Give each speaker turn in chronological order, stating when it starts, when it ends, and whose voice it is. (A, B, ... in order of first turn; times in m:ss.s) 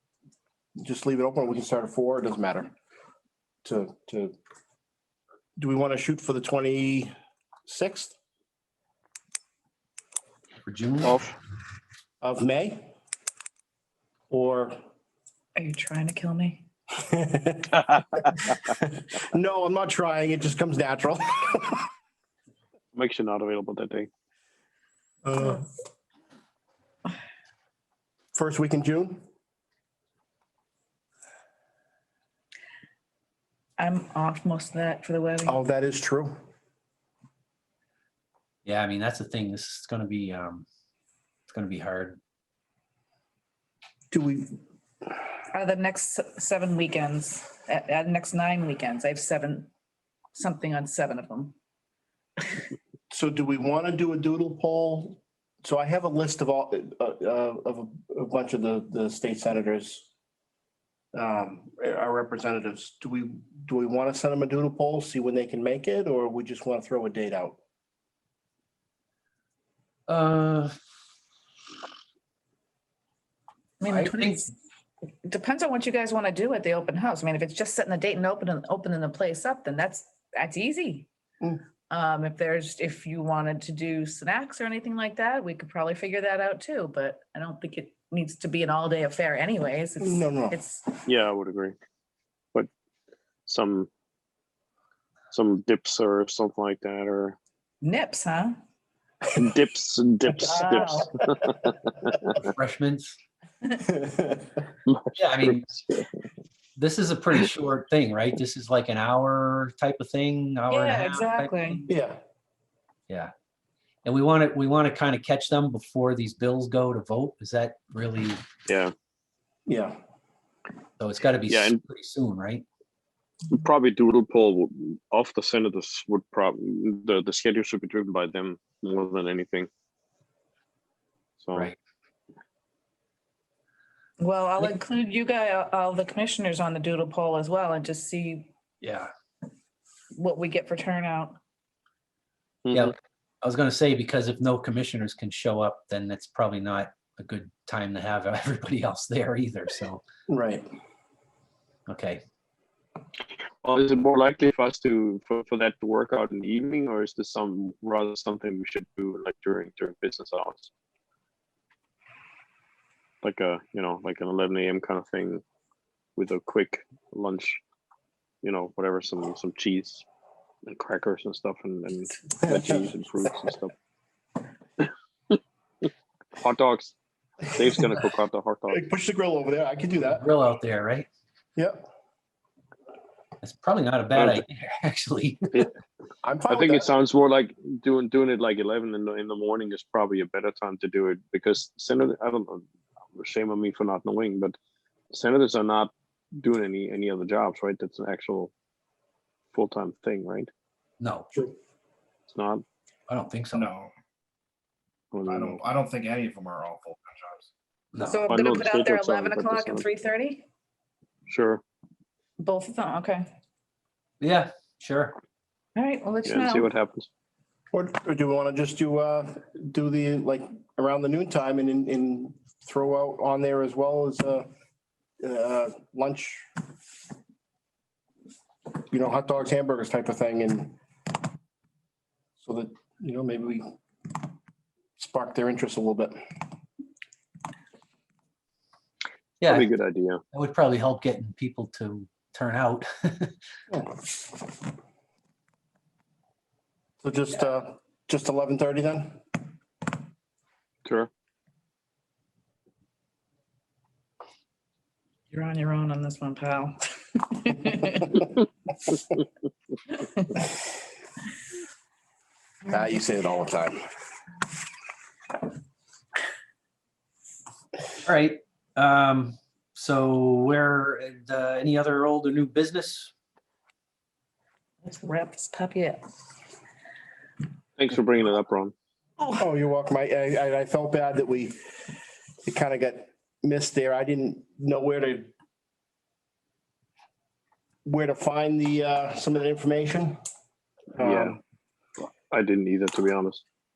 0:00.8-0:02.7 A
0:03.6-0:04.4 A
0:05.6-0:07.1 A
0:07.7-0:08.2 A
0:10.6-0:11.2 B
0:11.0-0:11.3 C
0:12.2-0:12.9 A
0:14.3-0:14.8 A
0:15.6-0:16.6 D
0:17.0-0:21.9 A
0:22.9-0:24.1 C
0:25.2-0:25.7 A
0:28.3-0:29.2 A
0:33.8-0:35.6 D
0:35.5-0:36.4 A
0:38.6-0:40.7 B
0:41.5-0:42.2 B
0:44.1-0:44.6 A
0:45.5-0:49.7 D
0:50.3-0:51.6 D
0:53.1-1:00.1 A
1:01.1-1:07.6 A
1:10.1-1:10.8 B
1:13.8-1:14.5 D
1:13.9-1:14.4 B
1:15.3-1:21.1 D
1:21.9-1:31.0 D
1:30.0-1:30.6 A
1:31.1-1:31.8 C
1:33.5-1:33.9 C
1:35.3-1:37.4 C
1:37.8-1:38.6 D
1:39.4-1:42.3 C
1:40.4-1:41.1 D
1:42.3-1:43.2 B
1:43.8-1:44.6 A
1:44.9-1:46.1 C
1:45.2-1:45.7 B
1:46.8-1:51.9 B
1:50.7-1:51.8 D
1:51.9-1:52.2 A
1:54.0-1:58.4 B
1:58.7-1:58.9 C
1:59.7-2:00.0 A
2:01.0-2:02.6 B
2:01.5-2:01.8 C
2:03.5-2:09.7 C
2:11.4-2:11.7 C
2:14.2-2:18.5 D
2:18.8-2:19.1 B
2:20.2-2:21.4 D
2:22.6-2:22.9 C
2:22.7-2:30.0 B
2:30.3-2:30.7 A
2:31.9-2:32.2 B
2:33.6-2:40.7 C
2:43.2-2:45.4 C
2:46.2-2:47.6 C
2:48.4-2:50.0 C
2:50.7-2:53.7 C
2:52.4-2:52.9 A
2:56.4-2:57.0 C
2:57.5-2:58.9 C
2:58.7-3:00.3 A
3:00.0-3:01.1 B
3:01.6-3:01.9 A
3:03.4-3:05.7 B
3:04.1-3:04.4 C
3:06.2-3:06.9 A
3:06.5-3:14.6 C
3:15.1-3:18.5 C
3:19.5-3:20.5 C
3:21.0-3:21.3 B
3:22.3-3:22.6 C
3:23.1-3:23.7 B
3:23.6-3:23.9 E
3:25.1-3:25.6 C
3:25.3-3:27.1 E
3:25.5-3:27.3 A
3:27.9-3:28.3 B
3:28.0-3:30.5 D
3:28.3-3:29.9 C
3:31.3-3:31.6 C
3:32.4-3:33.2 D
3:34.2-3:35.1 B
3:35.8-3:36.7 D
3:36.2-3:37.1 C
3:37.7-3:44.5 A
3:45.2-3:46.5 A
3:48.9-3:50.8 A
3:52.4-3:53.8 A
3:55.0-3:56.2 A
3:59.4-3:59.7 B
3:59.4-4:00.2 C
4:00.3-4:03.4 B
4:07.0-4:09.2 A
4:15.3-4:18.3 D
4:19.9-4:20.5 D
4:22.7-4:23.8 A
4:28.0-4:33.1 B
4:34.8-4:36.0 D
4:37.8-4:38.7 C
4:39.4-4:41.6 A
4:42.4-4:45.3 A
4:47.9-4:50.2 A
4:51.0-4:51.4 A
4:51.0-4:51.4 C
4:52.3-4:53.4 C